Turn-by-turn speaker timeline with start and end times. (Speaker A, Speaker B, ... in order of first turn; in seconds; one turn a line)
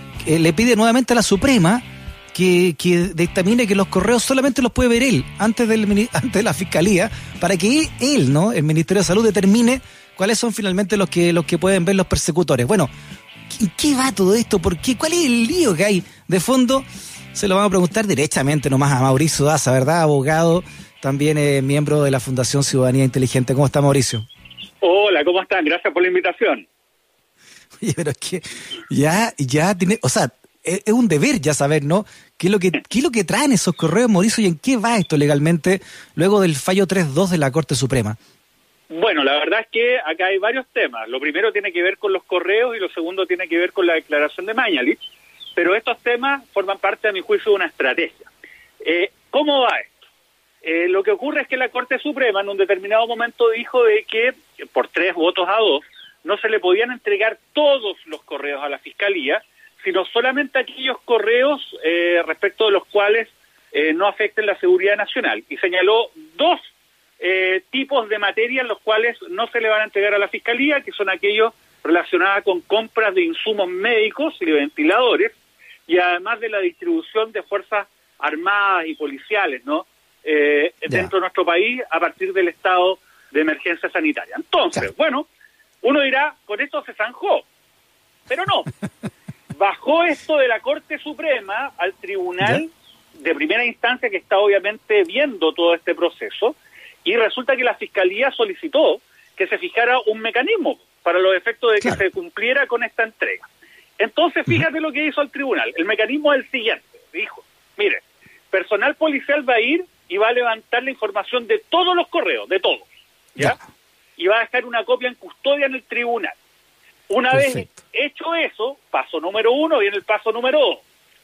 Speaker A: 0.2-1.8
Speaker A: 2.3-12.9
Speaker A: 13.5-24.3
Speaker B: 24.8-26.7
Speaker A: 27.8-38.2
Speaker B: 38.9-45.0
Speaker B: 45.6-48.3
Speaker B: 48.8-49.9
Speaker B: 50.6-75.3
Speaker B: 75.9-85.3
Speaker A: 80.9-81.1
Speaker B: 85.8-87.5
Speaker B: 88.3-88.7
Speaker B: 89.5-103.5
Speaker B: 104.0-112.9
Speaker B: 114.2-116.4
Speaker B: 117.1-120.8
Speaker A: 117.3-117.7